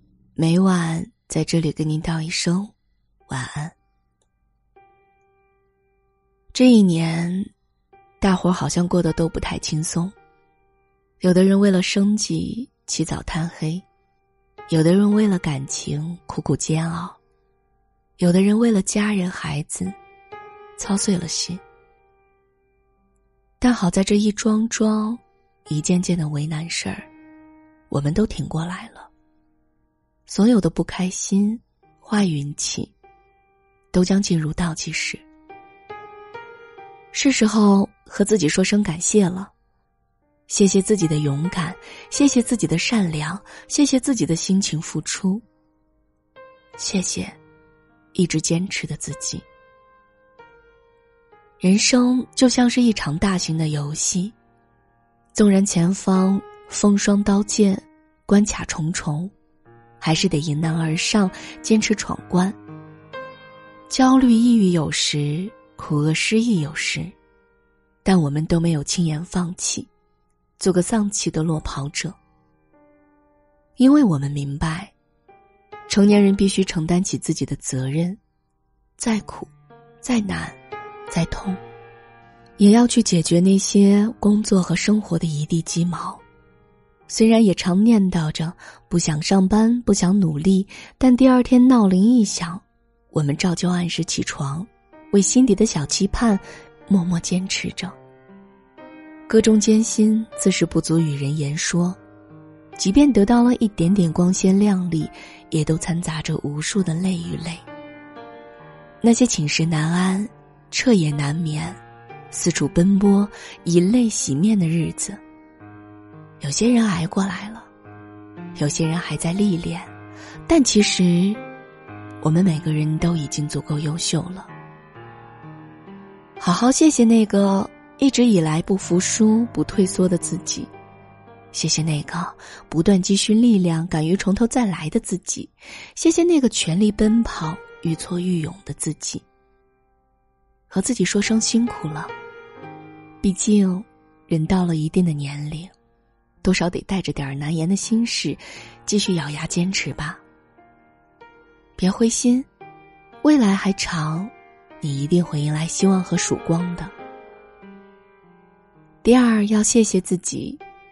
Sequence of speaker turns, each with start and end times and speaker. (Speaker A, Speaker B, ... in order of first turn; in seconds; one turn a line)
Speaker A: 0.4-2.7
Speaker A: 3.3-3.8
Speaker A: 6.5-7.5
Speaker A: 8.2-10.2
Speaker A: 11.2-13.8
Speaker A: 14.7-17.2
Speaker A: 18.2-20.0
Speaker A: 20.8-21.6
Speaker A: 23.6-27.1
Speaker A: 27.9-29.1
Speaker A: 30.3-32.9
Speaker A: 33.9-35.2
Speaker A: 37.1-39.5
Speaker A: 40.5-45.4
Speaker A: 46.8-47.4
Speaker A: 48.1-49.5
Speaker A: 51.6-54.4
Speaker A: 55.3-59.3
Speaker A: 60.0-62.6
Speaker A: 63.9-67.1
Speaker A: 68.0-69.9
Speaker A: 70.6-72.2
Speaker A: 73.8-74.9
Speaker A: 75.9-78.2
Speaker A: 79.0-81.6
Speaker A: 82.6-86.2
Speaker A: 87.1-98.0
Speaker A: 99.3-102.0
Speaker A: 102.8-107.7
Speaker A: 109.0-115.2
Speaker A: 116.4-117.7
Speaker A: 118.5-119.9
Speaker A: 120.5-121.4
Speaker A: 122.2-124.5
Speaker A: 126.4-130.7
Speaker A: 131.5-139.2
Speaker A: 140.7-142.1
Speaker A: 143.2-145.7
Speaker A: 146.4-150.2
Speaker A: 151.8-152.5
Speaker A: 153.2-156.9
Speaker A: 159.0-160.6